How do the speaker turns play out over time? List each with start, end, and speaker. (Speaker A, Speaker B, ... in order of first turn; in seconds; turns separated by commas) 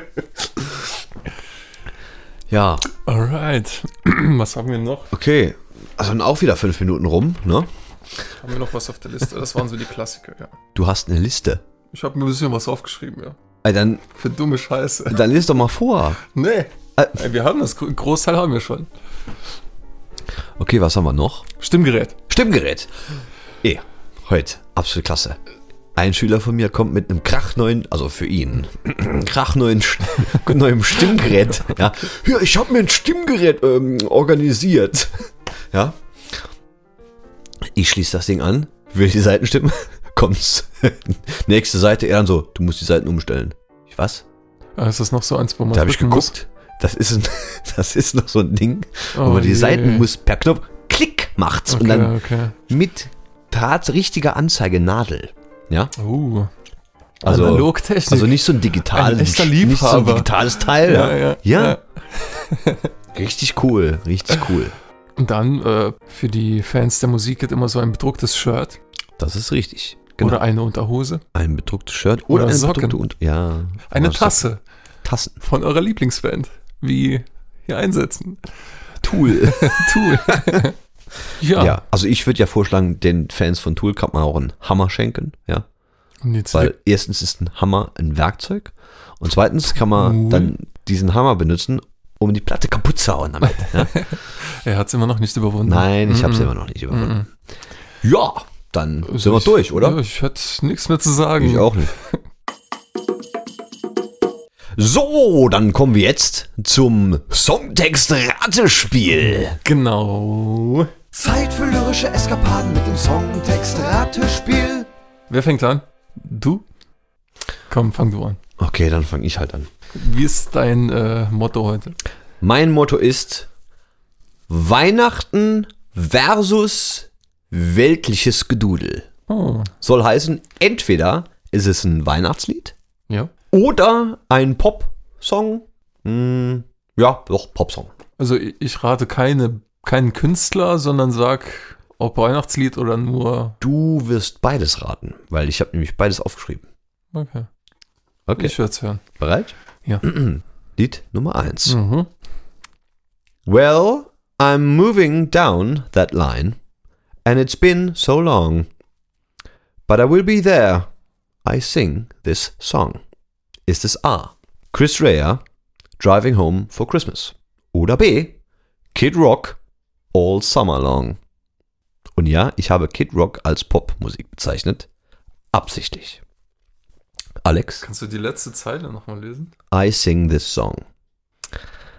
Speaker A: 2.5-2.9, Speaker B: 3.0-5.1, Speaker A: 5.1-7.7, Speaker B: 8.4-10.5, Speaker A: 10.8-11.6, Speaker B: 11.9-13.4, Speaker A: 13.6-14.0, Speaker B: 14.2-15.2, Speaker A: 15.1-16.2, Speaker B: 16.3-18.9, Speaker A: 20.6-21.5, Speaker B: 21.6-22.2, Speaker A: 22.3-22.9, Speaker A: 23.6-25.4, Speaker A: 26.0-36.0, Speaker A: 37.7-44.2, Speaker B: 44.8-46.3, Speaker A: 45.7-55.9, Speaker B: 49.1-50.1, Speaker B: 51.7-52.6, Speaker B: 56.0-56.5, Speaker A: 57.2-61.8, Speaker B: 57.2-62.9, Speaker A: 63.1-64.7, Speaker B: 65.2-68.8, Speaker A: 69.2-70.4, Speaker B: 70.2-71.2, Speaker A: 71.3-74.5, Speaker B: 72.3-73.0, Speaker B: 73.9-74.6, Speaker A: 75.0-75.4, Speaker B: 75.4-78.5, Speaker A: 79.0-80.6, Speaker B: 79.2-80.8, Speaker B: 81.4-81.8, Speaker A: 81.5-85.7, Speaker B: 86.2-86.7, Speaker A: 86.5-94.1, Speaker B: 89.8-90.5, Speaker B: 93.7-97.3, Speaker A: 95.7-97.2, Speaker A: 98.0-100.0, Speaker B: 99.0-102.2, Speaker A: 101.4-101.9, Speaker A: 104.8-109.6, Speaker B: 109.6-110.9, Speaker A: 111.1-114.9, Speaker B: 115.3-116.7, Speaker B: 117.7-118.4, Speaker A: 118.6-119.7, Speaker B: 119.9-122.0, Speaker A: 122.4-123.5, Speaker A: 124.5-129.1, Speaker B: 129.3-129.7, Speaker A: 129.8-132.8, Speaker A: 133.5-137.9, Speaker B: 138.2-143.6, Speaker A: 143.6-146.7, Speaker B: 147.1-147.5, Speaker A: 148.3-148.6, Speaker B: 148.4-149.1, Speaker A: 149.2-151.8, Speaker B: 151.7-152.1, Speaker A: 153.5-156.6, Speaker A: 157.2-158.7, Speaker A: 159.9-160.9, Speaker A: 161.4-163.0, Speaker A: 163.7-165.4, Speaker A: 166.0-168.4, Speaker A: 168.9-169.6, Speaker A: 170.1-171.2, Speaker A: 172.2-174.9, Speaker A: 175.5-176.2, Speaker A: 177.4-177.8, Speaker B: 177.8-179.5, Speaker A: 179.7-180.8